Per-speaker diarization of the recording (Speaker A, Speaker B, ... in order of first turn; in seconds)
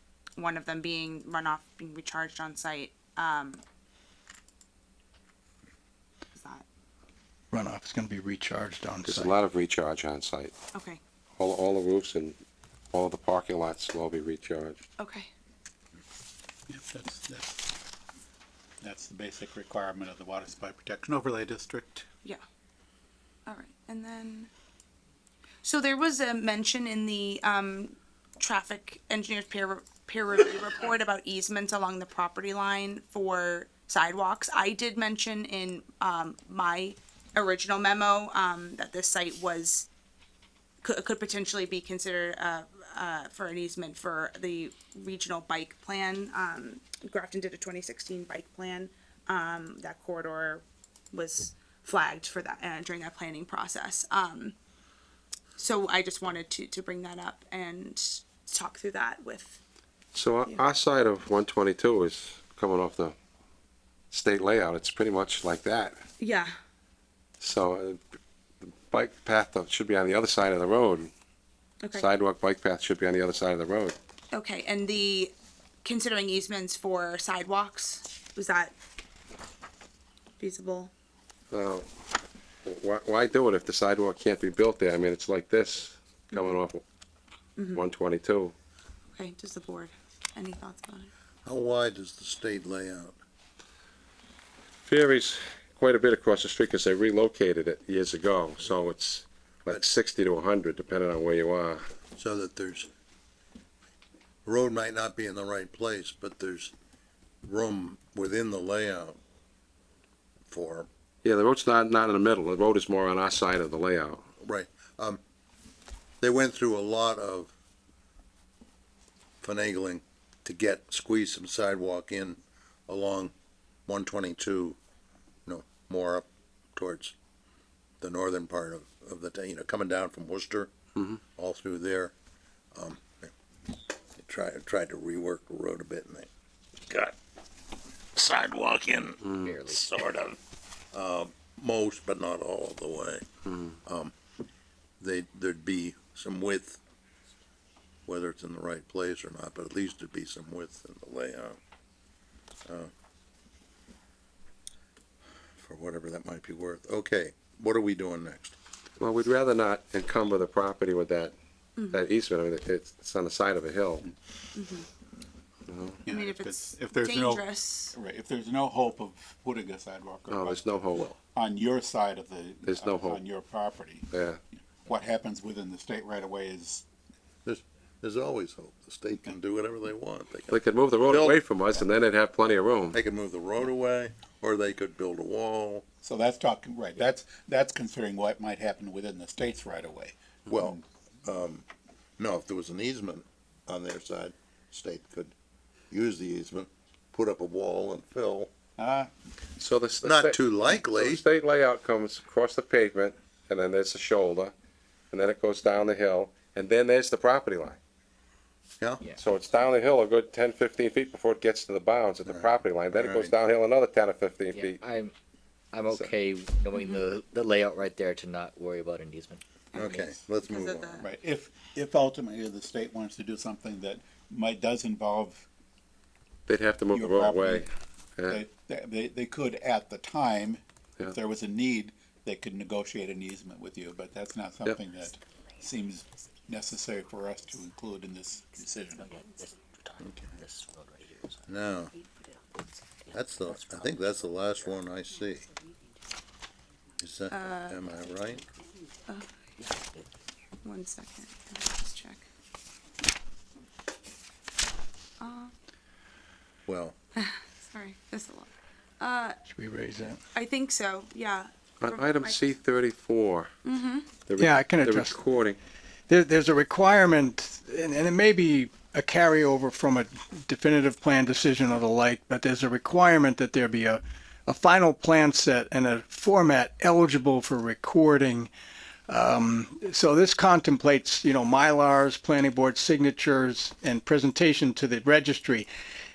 Speaker A: 0.4-3.6, 6.3-6.7, 10.7-11.0, 15.0-15.3, 23.5-24.5, 25.6-39.9, 40.8-54.6, 55.6-59.6, 66.2-66.5, 74.3-75.3, 75.8-78.8, 80.4-80.9, 86.3-86.6, 87.6-87.8, 89.1-91.1, 161.8-162.0, 164.5-164.9, 166.1-167.9, 216.8-217.0, 220.5-221.1, 247.3-247.8, 249.1-249.3, 250.6-252.2, 255.2-255.5, 257.2-259.4, 260.2-262.4, 263.6-264.1
Speaker B: 7.5-9.4, 259.5-260.2, 264.4-265.1, 266.1-278.5, 279.1-285.7
Speaker C: 9.1-10.5, 11.4-12.4, 12.9-14.8, 60.1-63.1, 64.1-66.0, 67.4-68.0, 68.6-71.1, 71.9-74.0, 81.5-81.9, 82.7-86.8, 87.8-88.5, 94.8-101.8, 111.2-114.2, 139.2-139.6, 143.5-143.8, 159.0-161.3, 161.9-164.1, 165.7-166.0, 170.3-171.1, 172.7-173.2, 174.1-174.4, 180.5-183.0, 199.6-204.5, 205.1-207.8, 209.2-214.8, 226.5-228.4, 261.8-263.5, 264.3-265.6
Speaker D: 16.7-17.7, 18.8-22.1, 166.0-176.8, 186.0-190.8, 198.8-199.1, 221.0-225.5, 226.9-227.7, 228.3-239.1
Speaker E: 91.5-93.2, 102.2-102.9, 104.5-106.7, 107.5-109.2, 110.5-110.9, 114.4-115.2, 116.2-117.5, 119.4-123.3, 123.9-124.8, 125.5-127.1, 128.0-130.7, 131.4-132.1, 132.7-133.3, 134.2-136.3, 136.9-137.2, 138.1-140.4, 140.9-143.3, 143.9-144.1, 145.0-146.8, 148.1-151.6, 155.6-158.6, 177.4-181.4, 182.9-185.8, 190.5-191.7, 192.2-195.3, 195.9-198.5, 200.0-201.2, 212.3-213.3, 219.8-221.0, 240.0-240.3, 241.5-241.9, 243.1-245.5, 247.0-248.5, 256.7-257.0
Speaker F: 139.4-139.8, 214.5-215.1, 215.7-220.0, 239.0-241.5, 243.1-243.9, 249.6-250.1